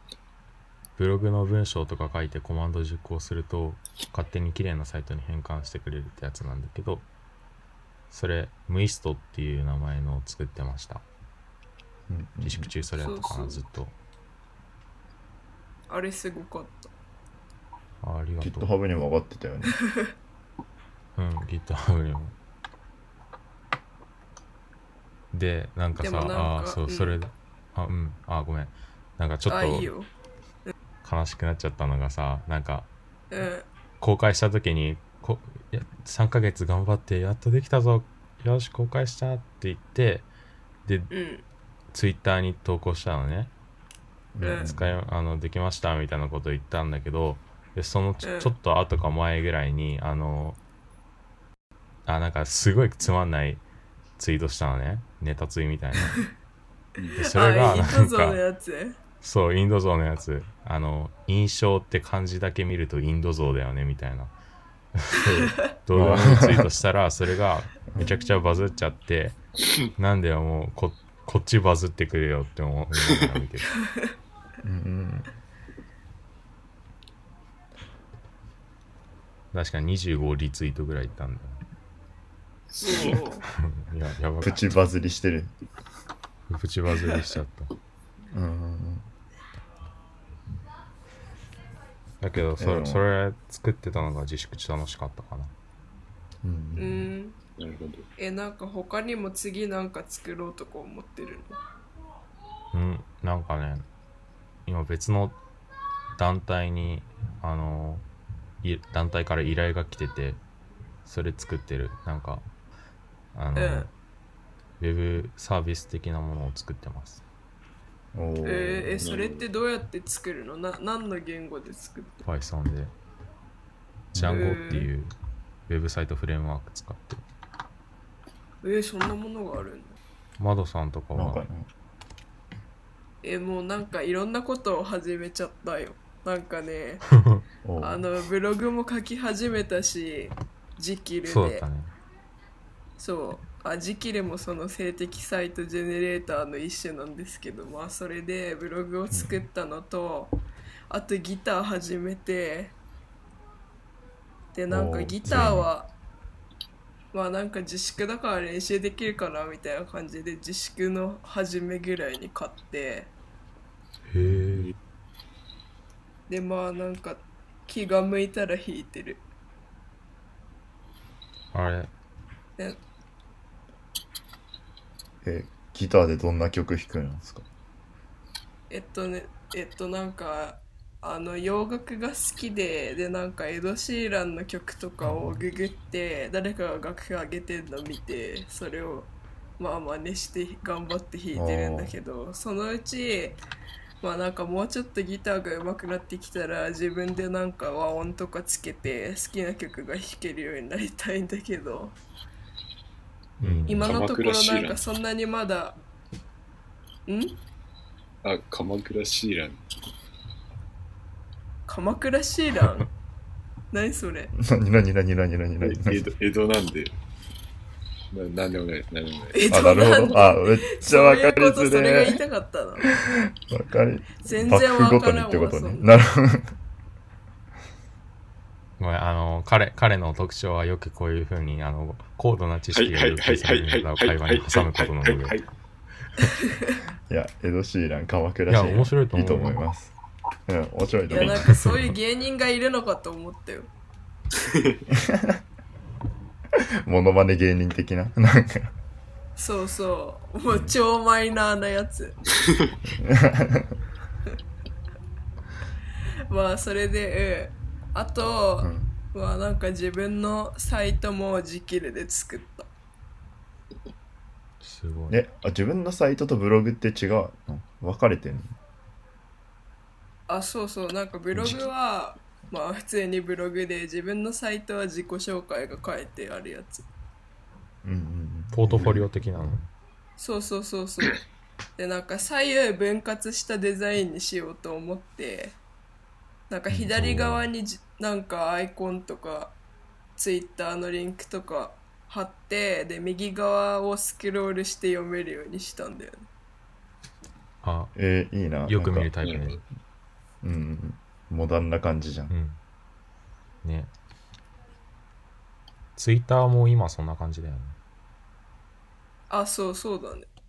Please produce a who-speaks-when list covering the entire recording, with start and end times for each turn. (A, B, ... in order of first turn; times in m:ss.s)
0:01.0-0:07.1 A
0:08.1-0:11.0 A
0:12.1-0:12.7 B
0:12.4-0:14.0 A
0:13.0-0:13.6 C
0:15.9-0:16.9 C
0:18.0-0:18.7 A
0:18.4-0:19.8 B
0:21.2-0:22.3 A
0:25.3-0:29.9 A
0:26.0-0:27.2 C
0:29.5-0:30.1 C
0:31.0-0:32.9 A
0:33.3-0:33.7 C
0:34.0-0:40.3 A
0:40.9-0:41.1 A
0:41.1-0:41.4 C
0:41.9-0:43.5 A
0:44.4-0:45.0 B
0:44.4-0:44.7 C
0:44.5-0:50.6 A
0:48.2-0:48.5 C
0:52.1-0:53.6 A
0:54.2-0:56.2 A
0:57.2-0:58.4 A
0:57.2-0:59.0 C
0:59.2-1:04.3 A
1:05.0-1:09.4 A
1:05.2-1:05.5 C
1:05.9-1:06.7 B
1:07.9-1:08.2 B
1:10.0-1:13.7 A
1:14.6-1:15.3 B
1:19.5-1:21.6 A
1:22.7-1:23.2 D
1:22.8-1:23.4 C
1:23.5-1:24.7 A
1:24.4-1:25.5 B
1:26.5-1:27.7 A
1:28.3-1:29.1 B
1:32.2-1:35.5 A
1:32.6-1:33.0 B
1:36.4-1:37.1 B
1:36.8-1:37.4 C
1:37.6-1:38.1 D
1:38.2-1:41.6 C
1:42.7-1:43.8 A
1:44.7-1:45.4 A
1:46.2-1:48.1 A
1:48.6-1:50.4 A
1:51.0-1:52.5 A
1:53.3-1:53.9 A
1:53.6-1:53.9 C
1:54.8-1:57.2 A
1:58.1-1:59.1 B
1:58.4-2:02.2 C
1:59.0-1:59.5 D
2:02.2-2:02.9 A
2:04.1-2:04.4 B
2:04.2-2:05.1 A
2:04.2-2:04.9 C
2:05.7-2:07.2 A
2:08.6-2:10.0 C
2:10.4-2:11.4 A
2:11.2-2:11.7 B
2:13.2-2:17.0 C
2:17.6-2:18.0 B
2:17.8-2:21.6 C
2:21.2-2:21.9 A
2:23.0-2:30.4 C
2:29.1-2:29.4 B
2:30.9-2:32.8 C
2:34.5-2:35.9 C
2:34.7-2:35.6 B
2:35.3-2:35.7 A
2:37.1-2:43.1 C
2:44.1-2:44.7 A
2:44.2-2:44.7 D
2:46.3-2:49.2 C
2:51.5-2:51.9 A
2:55.2-2:57.5 B
2:58.7-3:13.4 C
3:05.0-3:05.4 B
3:11.3-3:12.0 B
3:14.0-3:22.0 C
3:23.4-3:23.9 A
3:23.4-3:23.8 B
3:23.5-3:24.8 D
3:23.7-3:25.8 C
3:27.1-3:27.4 C
3:28.2-3:29.6 D
3:31.7-3:32.9 C
3:33.7-3:34.3 C
3:34.4-3:36.0 B
3:35.6-3:36.9 D
3:38.1-3:39.5 D
3:39.3-3:43.0 C
3:39.5-3:42.2 B
3:42.8-3:46.5 B
3:44.2-3:45.9 C
3:48.8-3:55.4 A
3:52.7-3:55.5 D
3:56.4-3:56.8 C
3:57.1-3:59.9 B
3:58.5-3:59.6 A
4:00.5-4:01.6 B
4:01.1-4:03.7 C
4:01.2-4:02.0 A
4:04.5-4:04.8 D
4:04.9-4:05.4 B
4:06.6-4:08.7 B
4:09.4-4:12.2 C
4:12.9-4:13.8 B
4:16.3-4:22.7 C
4:18.6-4:18.9 B
4:24.6-4:25.2 A
4:25.1-4:28.6 B
4:30.3-4:36.9 C
4:37.8-4:39.6 B
4:38.5-4:39.7 A
4:40.2-4:41.2 C
4:41.8-4:45.6 C
4:46.5-4:49.6 C
4:46.8-4:47.5 A
4:50.2-4:56.2 C
4:57.6-4:57.9 A
4:58.0-4:59.1 B
4:58.7-4:59.6 A
4:59.2-4:59.6 D
5:00.4-5:02.3 B
5:02.3-5:02.6 A
5:03.6-5:03.9 A
5:06.0-5:07.8 A
5:09.3-5:10.3 C